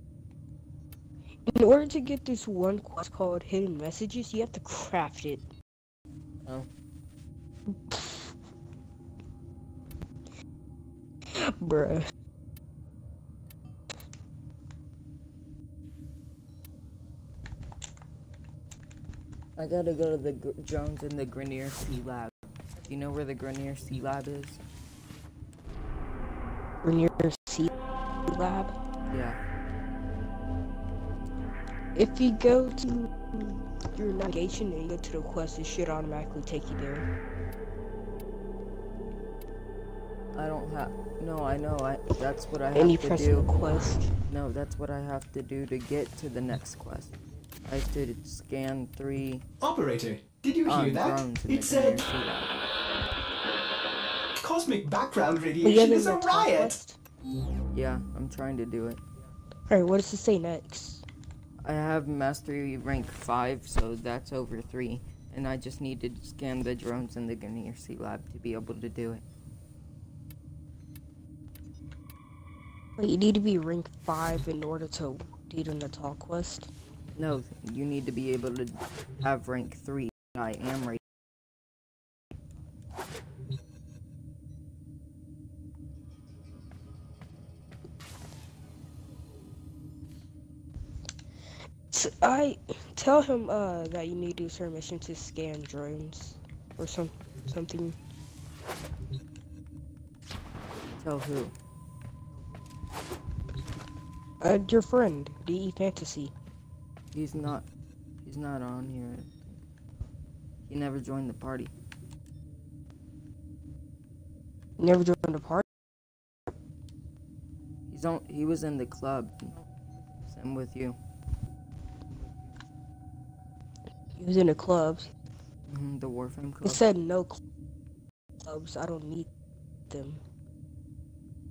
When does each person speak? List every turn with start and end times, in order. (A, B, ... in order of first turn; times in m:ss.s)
0:01.5-0:05.5 A
0:07.7-0:08.3 A
0:11.3-0:12.1 A
0:19.6-0:24.6 B
0:26.8-0:27.7 A
0:28.2-0:28.7 A
0:29.1-0:29.4 B
0:31.9-0:37.1 A
0:40.3-0:43.5 B
0:42.7-0:44.1 A
0:44.3-0:47.1 B
0:47.6-0:49.4 B
0:49.6-0:52.0 C
0:50.6-0:52.5 B
0:54.4-0:56.8 C
0:55.6-0:57.0 A
0:57.7-0:59.0 B
0:59.7-1:01.0 A
1:01.6-1:09.2 B
1:13.0-1:16.7 A
1:17.1-1:21.0 B
1:31.9-1:38.0 A
1:41.0-1:41.5 B
1:44.4-1:46.3 A
1:47.1-1:47.6 B
1:48.2-1:49.5 B
1:50.7-1:51.7 B
1:54.8-1:55.6 A
1:57.9-1:59.6 B
2:00.3-2:01.0 B
2:04.2-2:05.1 A
2:05.7-2:06.8 B
2:06.6-2:07.4 A
2:08.4-2:09.3 A
2:09.9-2:10.2 A